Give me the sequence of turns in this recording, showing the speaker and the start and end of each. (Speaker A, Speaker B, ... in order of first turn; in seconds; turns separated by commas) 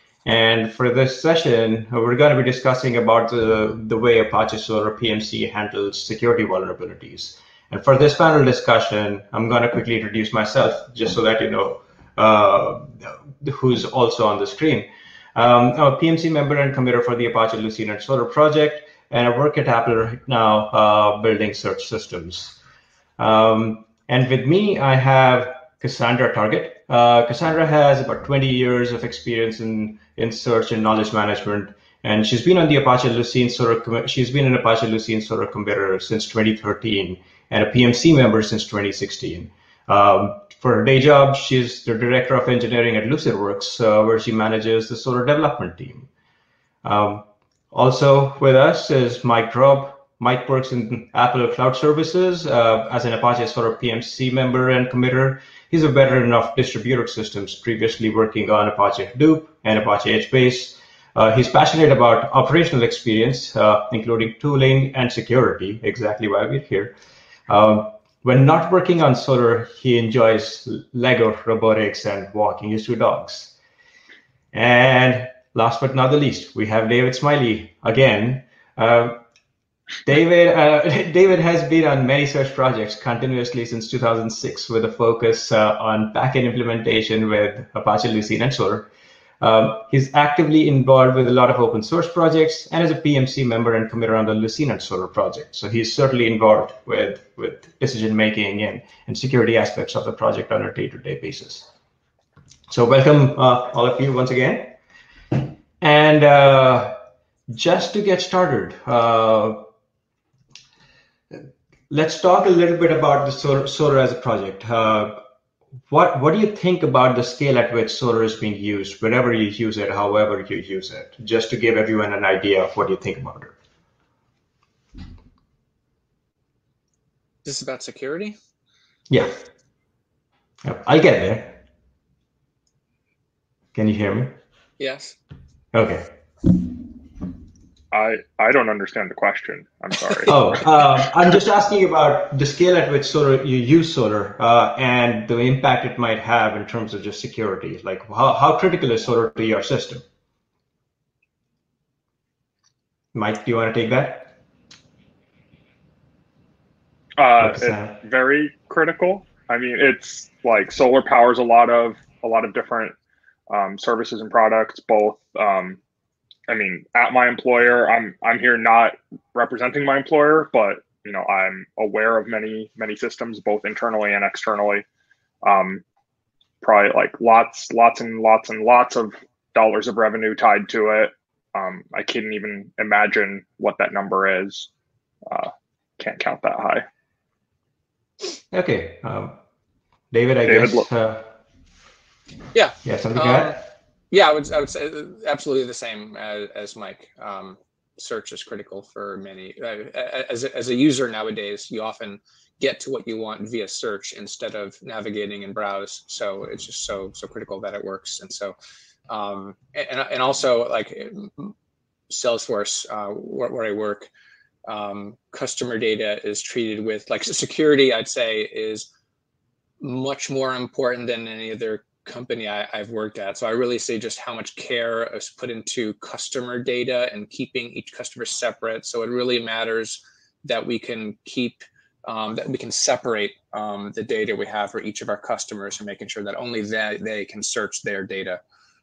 Speaker A: 0.2-22.6, Speaker A: 23.2-46.1, Speaker A: 46.8-66.9, Speaker A: 67.5-73.5, Speaker A: 74.5-79.2, Speaker A: 80.0-88.9, Speaker A: 89.4-101.7, Speaker A: 102.7-104.8, Speaker A: 105.3-107.0, Speaker A: 107.5-109.7, Speaker A: 111.3-115.2, Speaker A: 115.9-123.5, Speaker B: 127.4-128.3, Speaker A: 129.1-129.3, Speaker A: 130.6-131.6, Speaker A: 133.7-134.3, Speaker B: 134.8-135.2, Speaker A: 135.7-136.1, Speaker C: 137.9-140.3, Speaker A: 140.3-150.0, Speaker A: 153.1-154.3, Speaker C: 157.2-162.9, Speaker A: 157.4-157.9, Speaker C: 163.5-165.8, Speaker C: 166.5-174.8, Speaker C: 175.4-175.8, Speaker C: 176.6-184.7, Speaker C: 185.3-186.8, Speaker A: 188.5-189.3, Speaker A: 190.1-191.3, Speaker C: 190.4-190.8, Speaker B: 192.5-193.6, Speaker A: 192.8-193.6, Speaker B: 194.1-208.6, Speaker B: 209.1-211.5, Speaker B: 212.1-214.1, Speaker B: 214.7-218.9, Speaker B: 219.8-238.4